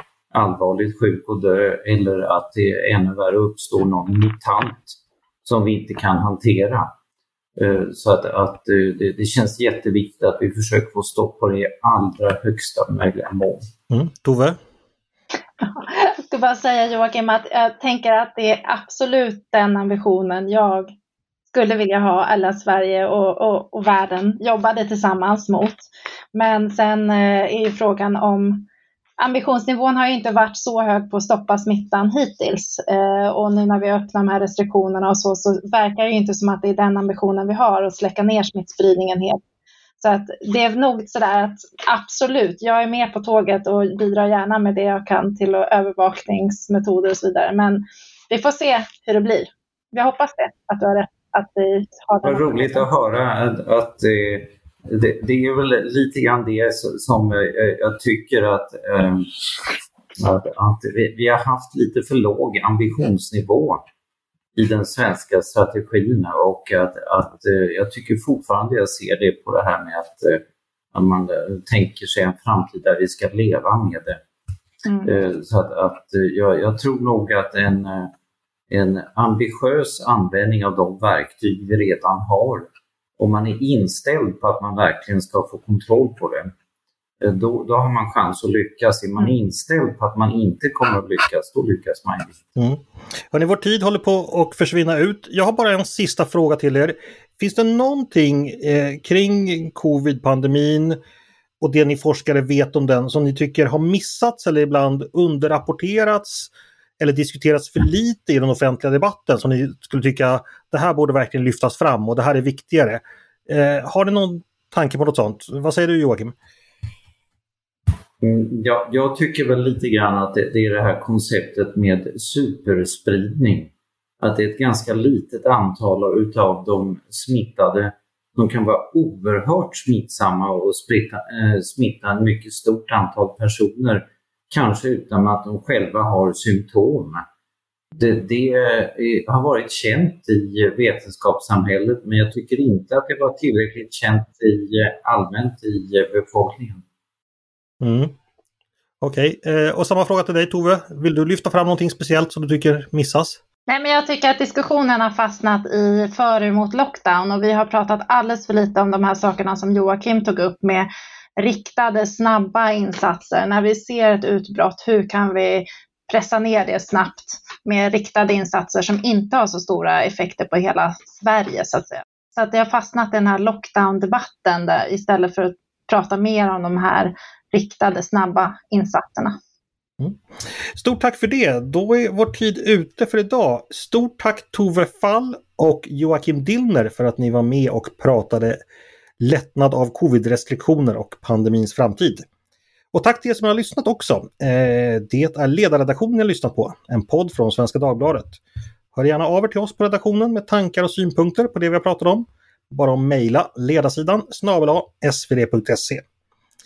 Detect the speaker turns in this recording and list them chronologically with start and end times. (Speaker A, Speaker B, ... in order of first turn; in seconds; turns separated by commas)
Speaker A: 0.3-6.9, Speaker A: 7.5-13.7, Speaker B: 13.9-14.6, Speaker C: 15.6-20.9, Speaker C: 21.5-28.7, Speaker C: 29.2-39.4, Speaker C: 40.0-52.9, Speaker A: 52.2-59.3, Speaker A: 60.2-63.8, Speaker A: 64.5-70.4, Speaker A: 70.9-74.2, Speaker C: 74.8-75.1, Speaker A: 75.0-78.1, Speaker A: 78.7-86.5, Speaker A: 87.2-92.5, Speaker B: 92.5-101.0, Speaker B: 101.6-116.3, Speaker A: 118.2-137.2, Speaker A: 138.0-146.8, Speaker B: 147.8-148.1, Speaker B: 149.0-153.4, Speaker C: 153.7-179.4, Speaker B: 180.7-188.6, Speaker B: 189.2-192.2, Speaker B: 192.9-198.4, Speaker B: 198.9-206.0